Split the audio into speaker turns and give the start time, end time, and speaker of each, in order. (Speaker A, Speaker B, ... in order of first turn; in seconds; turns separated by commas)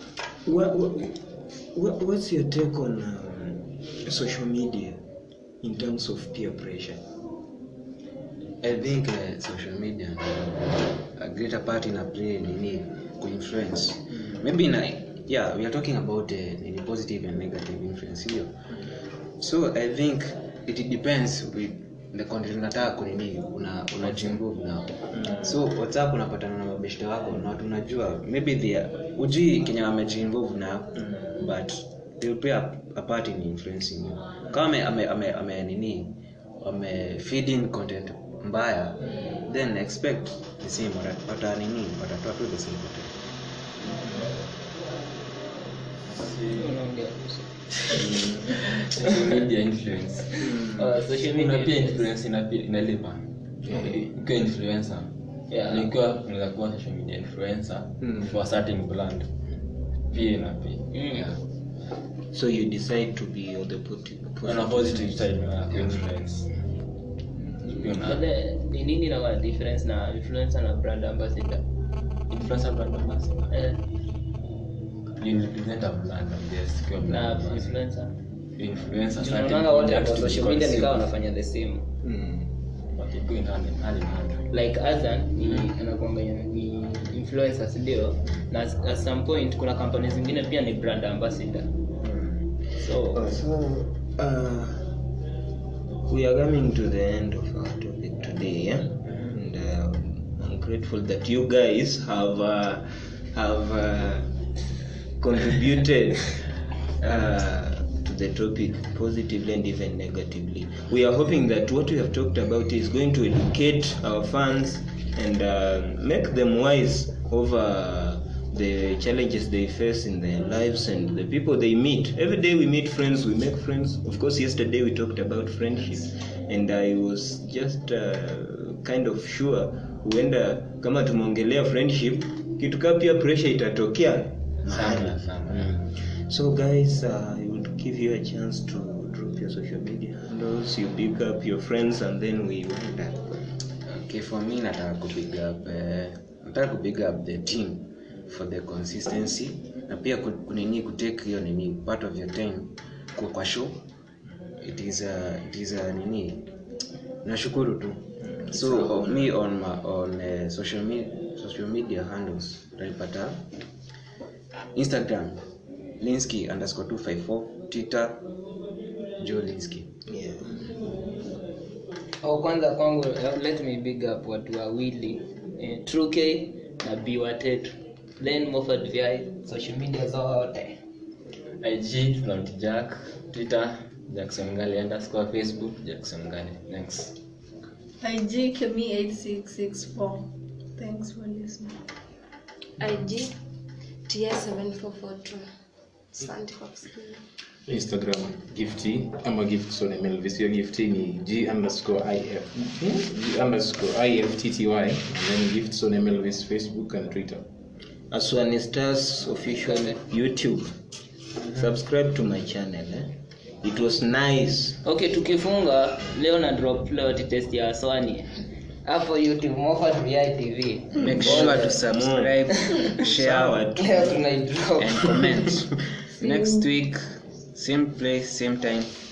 Speaker A: 0.4-5.0, Speaker A: 5.6-7.0, Speaker B: 8.6-18.6, Speaker B: 19.4-43.2, Speaker A: 25.1-25.4, Speaker A: 31.0-31.4, Speaker C: 46.1-46.7, Speaker D: 46.5-47.5, Speaker C: 47.9-50.5, Speaker A: 47.9-48.4, Speaker A: 50.4-50.9, Speaker D: 50.5-52.1, Speaker C: 51.1-59.3, Speaker D: 55.5-55.9, Speaker A: 58.0-58.3, Speaker C: 60.1-61.0, Speaker D: 60.9-61.3, Speaker A: 62.3-66.0, Speaker C: 64.4-66.5, Speaker A: 67.4-68.0, Speaker C: 67.7-68.2, Speaker D: 68.0-71.6, Speaker C: 72.3-73.5, Speaker D: 73.5-73.8, Speaker C: 75.2-77.7, Speaker D: 77.0-78.1, Speaker C: 78.6-81.1, Speaker D: 79.2-81.8, Speaker A: 82.0-82.5, Speaker C: 82.9-84.5, Speaker D: 84.5-91.7, Speaker A: 92.0-92.5, Speaker D: 92.8-93.2, Speaker A: 93.1-94.9, Speaker A: 96.1-104.3, Speaker A: 105.2-143.5, Speaker C: 134.6-135.8, Speaker B: 143.9-153.8, Speaker B: 154.6-156.4, Speaker B: 157.2-163.4, Speaker A: 158.2-159.3, Speaker B: 164.7-165.4, Speaker B: 166.0-168.3, Speaker B: 169.2-169.9, Speaker A: 170.1-170.7, Speaker D: 172.2-180.8, Speaker C: 181.6-187.1, Speaker E: 188.0-191.8, Speaker F: 192.8-193.3, Speaker F: 194.1-195.4, Speaker F: 196.1-197.2, Speaker G: 197.7-207.4, Speaker A: 208.1-210.7, Speaker D: 209.6-210.0, Speaker A: 211.5-214.8, Speaker D: 214.8-221.8, Speaker B: 220.9-223.7, Speaker A: 221.0-224.2, Speaker D: 222.5-222.9, Speaker D: 223.8-225.2, Speaker B: 224.8-228.9